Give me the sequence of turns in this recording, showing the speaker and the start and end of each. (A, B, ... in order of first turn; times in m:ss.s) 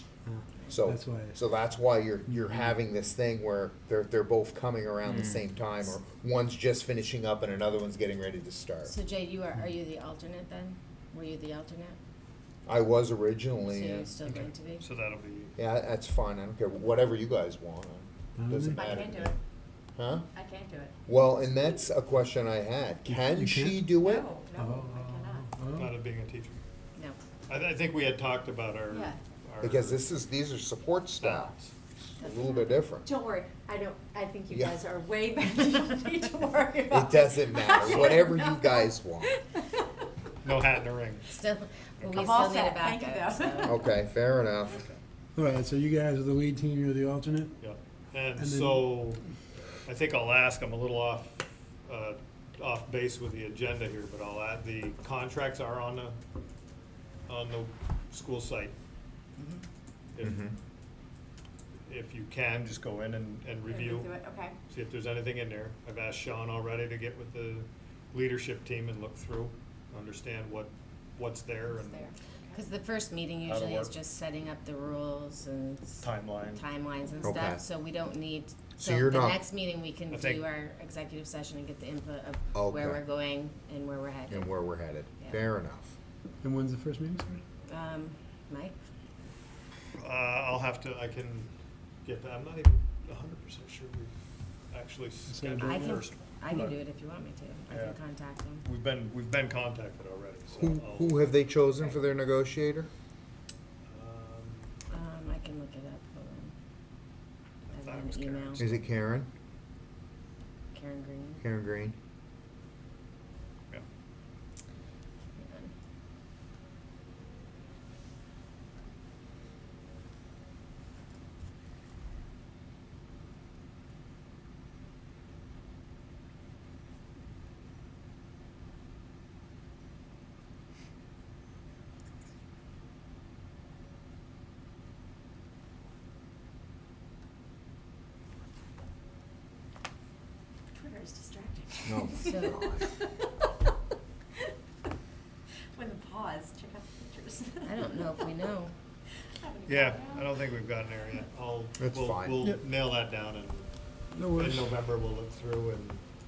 0:00.3-0:01.4 A
0:00.7-0:09.0 B
0:02.3-0:02.7 A
0:08.9-0:12.0 C
0:12.7-0:14.1 B
0:13.7-0:14.8 C
0:14.3-0:15.6 D
0:15.6-0:19.4 B
0:18.4-0:18.9 A
0:18.8-0:19.4 E
0:20.0-0:20.3 B
0:20.3-0:21.0 E
0:21.1-0:24.3 B
0:23.1-0:24.0 A
0:24.0-0:25.5 E
0:24.6-0:25.9 A
0:25.7-0:26.6 D
0:27.5-0:30.0 D
0:28.9-0:29.2 E
0:29.6-0:31.6 B
0:31.2-0:31.7 D
0:32.2-0:32.9 C
0:32.2-0:33.1 B
0:33.0-0:40.0 E
0:34.5-0:34.8 B
0:36.9-0:39.3 B
0:37.8-0:38.2 D
0:40.4-0:41.3 D
0:41.3-0:43.8 C
0:42.0-0:43.8 E
0:43.6-0:44.8 B
0:45.4-0:47.5 A
0:47.6-0:49.2 D
0:48.4-0:48.8 A
0:49.8-0:56.2 D
0:57.3-0:58.8 D
1:00.2-1:00.4 D
1:00.2-1:00.6 B
1:01.9-1:04.2 D
1:03.7-1:04.6 E
1:04.7-1:12.1 D
1:11.7-1:12.7 E
1:12.5-1:24.6 C
1:13.4-1:14.0 D
1:16.0-1:16.7 D
1:17.2-1:17.6 B
1:18.8-1:19.4 B
1:20.1-1:20.5 D
1:22.5-1:23.0 B
1:24.3-1:26.0 B
1:26.4-1:27.4 A
1:27.7-1:28.8 C
1:30.0-1:31.5 D
1:32.0-1:34.1 D
1:34.7-1:36.8 D
1:35.3-1:36.0 A
1:35.6-1:38.6 C
1:37.7-1:38.0 D
1:38.6-1:41.3 D
1:40.6-1:42.9 B
1:43.9-1:44.7 D
1:44.9-1:46.5 C
1:47.7-1:48.8 D
1:47.7-1:48.7 C
1:48.6-1:49.3 B
1:50.7-1:51.4 C
1:51.4-1:52.0 B
1:55.4-1:55.7 C
2:20.7-2:23.3 E
2:21.8-2:22.9 B
2:22.1-2:22.8 C
2:25.8-2:28.3 E
2:27.6-2:28.7 C
2:29.4-2:30.4 E
2:29.7-2:33.7 D
2:31.8-2:32.5 B
2:34.1-2:34.7 A
2:34.3-2:36.0 D